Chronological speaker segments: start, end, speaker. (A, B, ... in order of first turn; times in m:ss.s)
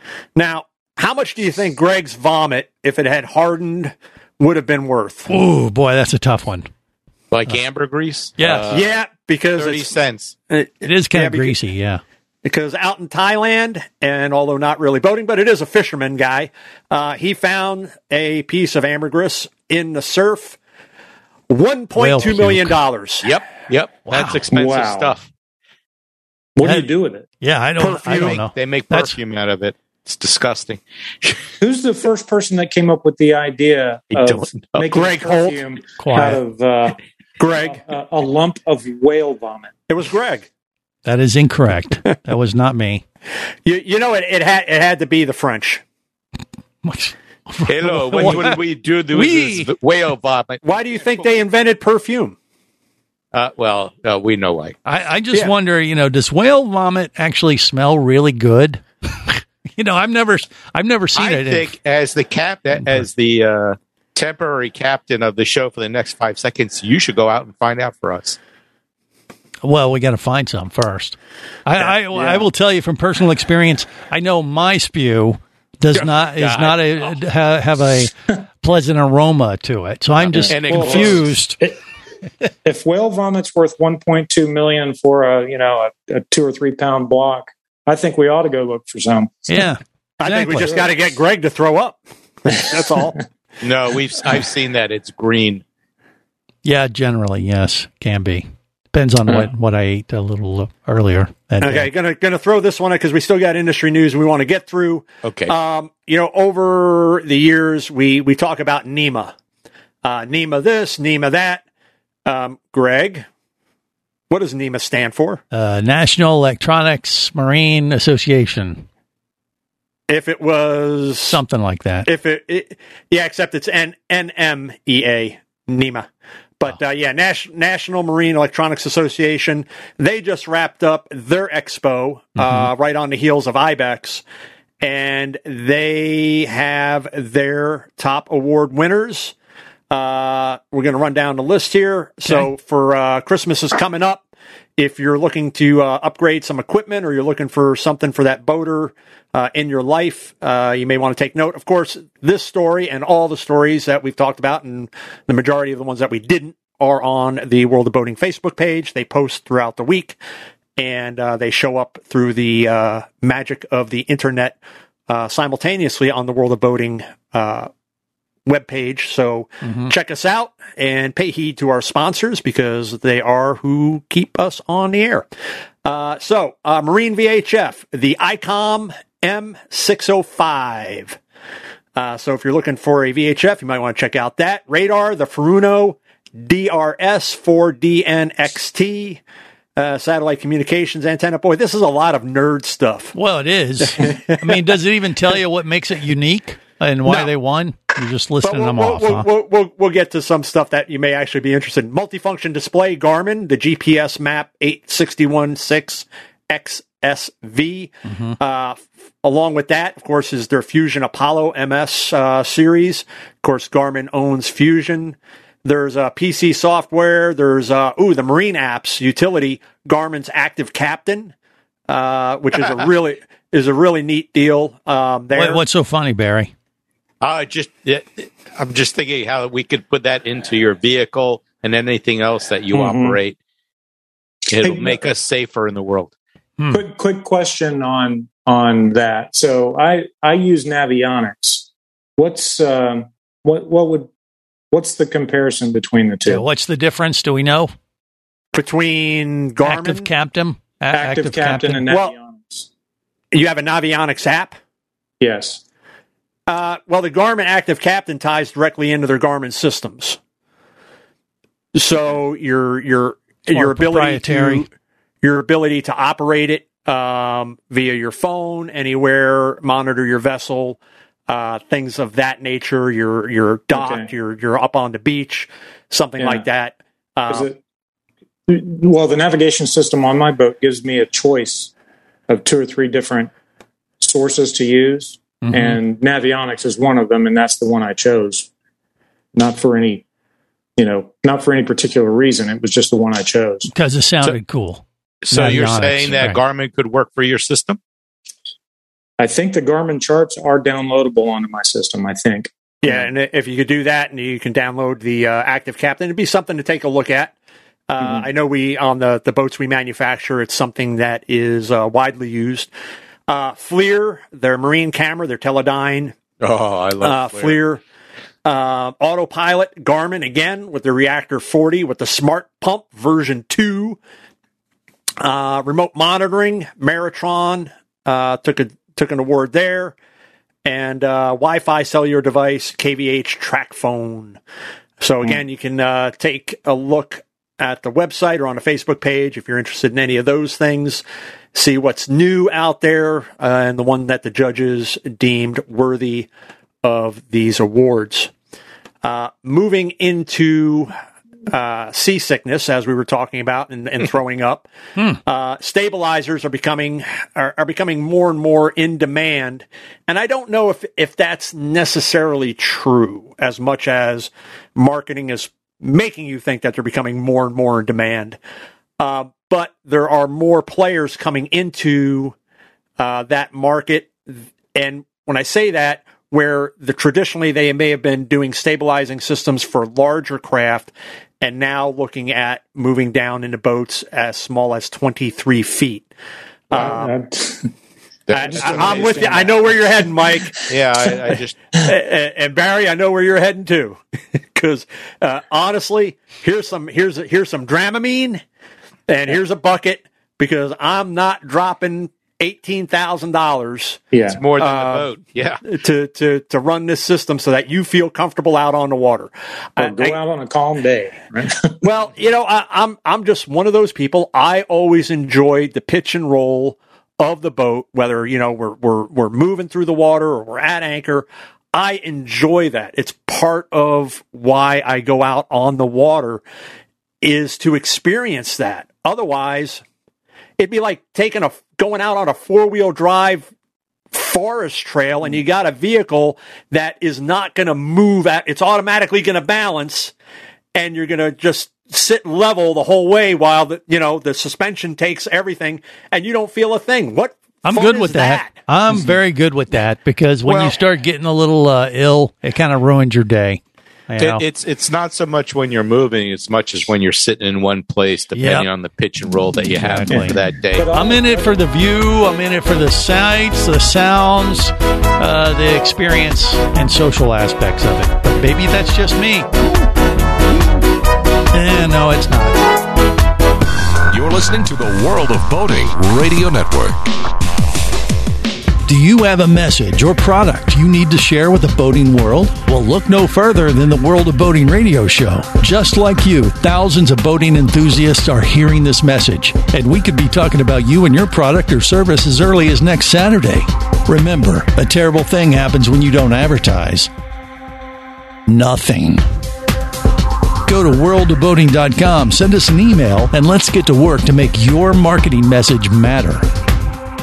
0:00.4-0:05.3 A
0:05.3-0:06.7 B
0:07.3-0:08.9 C
0:08.4-0:08.7 B
0:08.7-0:11.6 A
0:09.6-0:10.4 C
0:10.8-0:12.0 B
0:12.4-0:20.6 A
0:21.5-0:23.3 A
0:22.0-0:22.8 B
0:23.2-0:25.3 C
0:24.1-0:24.4 B
0:24.5-0:25.2 D
0:26.6-0:27.3 D
0:26.6-0:26.9 B
0:27.4-0:29.2 B
0:27.8-0:31.4 C
0:31.6-0:37.0 D
0:34.1-0:35.0 C
0:34.9-0:35.6 A
0:36.0-0:36.4 B
0:37.4-0:37.8 A
0:37.5-0:39.7 D
0:39.9-0:40.5 A
0:41.0-0:43.0 B
0:43.7-0:45.8 A
0:46.8-0:49.7 B
0:47.7-0:51.2 C
0:50.6-0:52.4 A
0:53.3-0:54.8 C
0:54.8-1:01.7 B
1:01.2-1:08.4 C
1:02.8-1:03.1 B
1:09.6-1:21.6 B
1:15.9-1:17.1 C
1:20.3-1:21.2 C
1:20.3-1:21.8 D
1:22.6-1:29.6 D
1:29.5-1:30.7 B
1:30.2-1:33.2 A
1:30.6-1:30.9 D
1:33.6-1:35.6 C
1:36.6-1:41.9 B
1:41.6-1:49.3 A
1:45.2-1:45.5 C
1:50.0-1:51.6 A
1:52.3-1:53.3 A
1:54.3-1:55.4 A
1:55.5-1:58.9 B
2:00.1-2:01.4 A
2:01.3-2:02.1 B
2:02.1-2:06.1 A
2:06.6-2:14.2 A
2:12.4-2:12.7 B
2:14.8-2:19.3 A
2:19.9-2:24.2 A
2:24.8-2:40.2 A
2:40.8-2:44.6 A
2:45.1-2:47.7 A
2:48.5-2:55.3 A
2:49.6-2:49.9 B
2:55.8-3:01.2 A
3:02.0-3:09.2 A
3:09.8-3:13.2 A
3:13.2-3:19.3 B
3:14.0-3:14.4 A
3:18.4-3:41.3 A
3:28.1-3:28.4 B
3:41.9-3:45.6 A
3:45.4-3:46.5 B
3:47.2-3:53.4 C
3:52.7-3:53.2 D
3:54.5-3:56.1 C
3:54.6-3:55.0 D
3:56.6-3:56.8 B
3:56.7-4:04.1 D
4:04.7-4:06.4 D
4:06.3-4:07.7 B
4:08.5-4:10.1 A
4:09.6-4:11.9 B
4:10.9-4:12.7 D
4:13.3-4:14.6 A
4:15.2-4:15.6 D
4:16.5-4:20.2 A
4:21.8-4:24.7 A
4:23.5-4:24.6 B
4:25.2-4:30.8 A
4:31.3-4:37.5 A
4:33.7-4:34.1 D
4:36.2-4:36.5 D
4:37.3-4:37.6 D
4:38.5-4:41.7 D
4:42.3-4:43.3 D
4:44.0-4:48.5 D
4:45.4-4:45.8 B
4:49.4-4:50.0 D
4:50.8-4:53.7 D
4:53.7-4:56.4 B
4:55.2-4:57.8 C
4:59.2-5:03.1 D
5:02.8-5:07.3 A
5:07.9-5:12.7 A
5:08.0-5:08.3 D
5:13.3-5:16.2 A
5:16.4-5:17.6 C
5:17.0-5:17.8 A
5:18.4-5:24.0 A
5:25.2-5:30.0 A
5:30.6-5:34.4 A
5:35.0-5:41.0 A
5:41.6-5:46.3 A
5:46.8-5:48.3 A
5:49.0-5:50.9 A
5:51.5-5:54.7 A
5:55.2-6:08.4 A
6:09.0-6:12.4 A
6:13.0-6:26.1 A
6:26.7-6:27.1 A
6:26.7-6:27.7 D
6:28.3-6:29.6 C
6:28.3-6:30.6 A
6:28.4-6:30.4 D
6:30.7-6:31.6 C
6:31.0-6:31.3 D
6:31.8-6:34.0 A
6:34.6-6:38.4 A
6:39.1-6:44.0 A
6:44.1-6:44.4 D
6:44.3-6:45.6 C
6:44.6-6:45.1 A
6:45.6-6:50.2 A
6:49.8-6:51.8 D
6:51.8-7:06.4 A
7:07.2-7:09.8 A
7:10.6-7:13.5 A
7:14.1-7:20.1 A
7:20.8-7:28.5 A
7:27.6-7:34.4 B
7:30.4-7:30.8 C
7:34.2-7:40.9 C
7:38.4-7:38.7 B
7:39.7-7:40.4 B
7:40.1-7:41.6 D
7:40.9-7:49.5 B
7:51.5-7:52.6 B
7:54.1-7:57.0 E
7:58.9-8:17.1 B
8:18.5-8:19.2 B
8:20.7-8:26.5 B